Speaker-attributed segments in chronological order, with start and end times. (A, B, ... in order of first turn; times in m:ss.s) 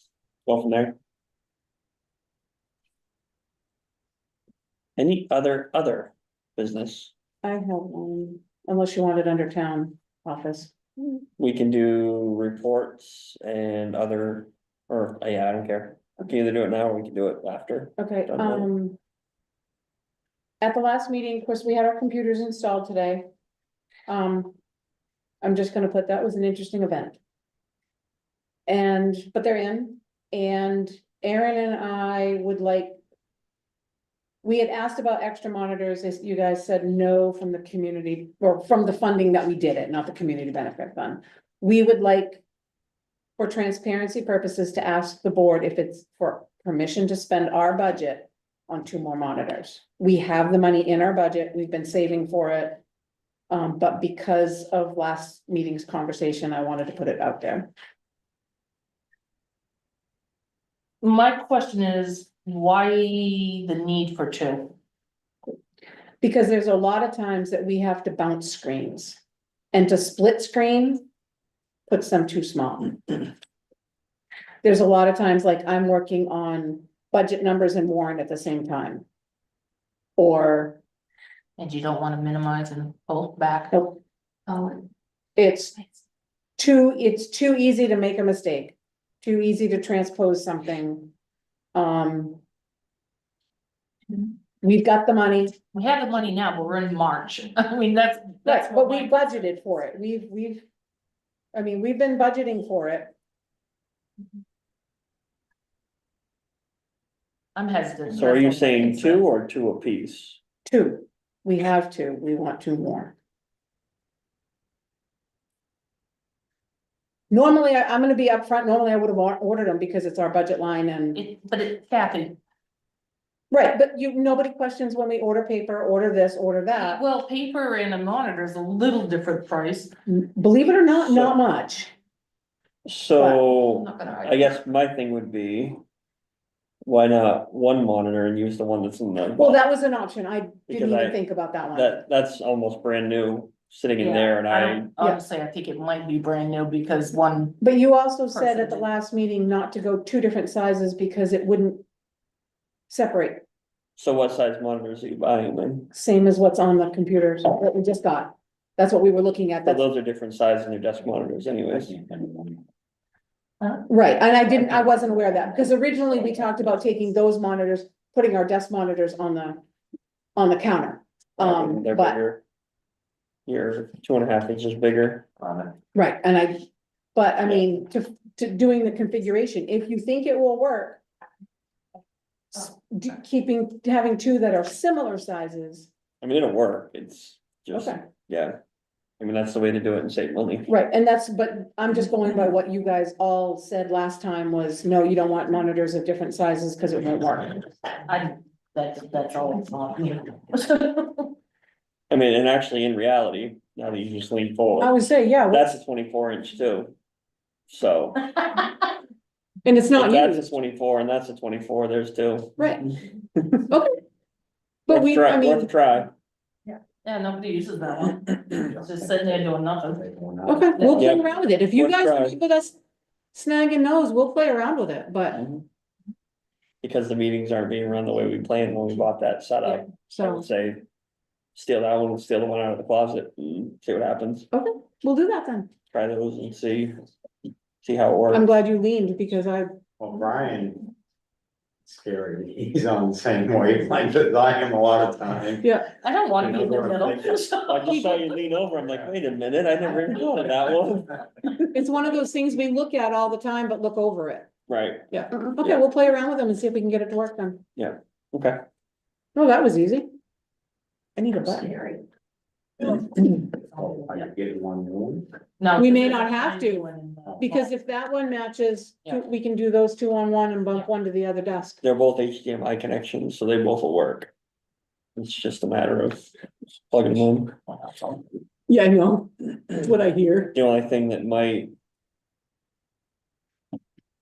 0:00.5-0:01.0 A
0:05.0-0:07.1 A
0:07.4-0:10.8 B
0:11.4-0:18.7 A
0:18.0-0:19.0 B
0:20.6-0:23.2 B
0:24.1-0:24.6 B
0:25.4-0:27.2 B
0:28.7-0:33.0 B
0:34.4-0:42.4 B
0:43.4-0:52.8 B
0:53.5-0:57.7 B
1:01.0-1:04.7 C
1:06.2-1:09.2 B
1:09.7-1:11.1 B
1:11.9-1:13.3 B
1:14.6-1:19.0 B
1:20.2-1:20.8 B
1:21.6-1:23.8 C
1:23.7-1:24.0 B
1:24.5-1:24.9 C
1:25.4-1:25.8 B
1:26.6-1:31.1 B
1:31.7-1:32.4 B
1:34.6-1:35.6 B
1:35.7-1:39.4 C
1:38.5-1:40.6 B
1:41.5-1:43.1 B
1:47.6-1:49.2 C
1:48.1-1:50.4 A
1:50.7-1:53.2 B
1:57.3-2:01.2 B
2:01.2-2:02.4 C
2:03.5-2:07.0 B
2:06.7-2:10.0 C
2:10.1-2:11.9 B
2:11.1-2:11.4 A
2:12.8-2:15.8 A
2:13.2-2:13.4 B
2:13.6-2:14.6 C
2:16.8-2:19.6 A
2:19.4-2:22.0 B
2:20.7-2:21.2 A
2:21.7-2:24.9 A
2:24.0-2:27.6 C
2:27.6-2:31.8 B
2:28.3-2:28.9 C
2:32.9-2:33.4 B
2:34.0-2:35.9 A
2:35.9-2:39.8 B
2:39.6-2:42.0 A
2:43.9-2:49.6 B
2:50.4-2:52.2 B
2:51.4-2:52.4 A
2:53.5-2:55.3 A
2:56.0-2:56.6 B
2:57.2-3:01.0 B
3:02.5-3:05.9 B
3:06.2-3:08.6 A
3:07.7-3:08.0 B
3:09.2-3:10.7 A
3:10.7-3:17.6 B
3:18.0-3:21.3 C
3:22.1-3:25.0 A
3:24.8-3:25.7 B
3:25.5-3:26.9 A
3:27.7-3:28.3 A
3:29.6-3:30.5 B
3:30.0-3:32.8 A
3:32.6-3:32.8 B
3:33.5-3:34.0 B
3:34.9-3:35.7 B
3:34.9-3:36.1 A
3:37.0-3:40.1 C
3:40.0-3:41.2 D
3:40.5-3:42.8 B
3:40.7-3:41.1 C
3:41.0-3:42.4 A
3:43.3-3:45.4 B
3:45.3-3:45.6 A
3:46.8-3:50.8 A
3:50.1-3:50.5 B
3:51.6-3:54.5 A
3:54.5-3:55.7 B
3:55.9-3:57.0 A
3:57.8-3:58.5 A
3:58.3-3:59.8 B
4:00.0-4:00.8 D
4:01.9-4:05.7 D
4:05.6-4:05.9 B
4:06.0-4:08.2 C
4:06.4-4:07.4 D
4:07.7-4:11.3 A
4:11.6-4:14.5 B
4:14.7-4:15.1 A
4:15.1-4:17.6 B
4:17.8-4:18.6 A
4:19.4-4:20.1 B
4:21.2-4:22.0 B
4:23.0-4:25.3 D
4:23.4-4:24.2 C
4:25.6-4:27.7 C
4:25.8-4:26.9 B
4:27.4-4:31.8 B
4:31.8-4:34.3 A
4:35.2-4:36.3 A
4:36.9-4:37.6 A
4:37.7-4:38.2 C
4:38.7-4:40.6 B
4:40.5-4:41.7 A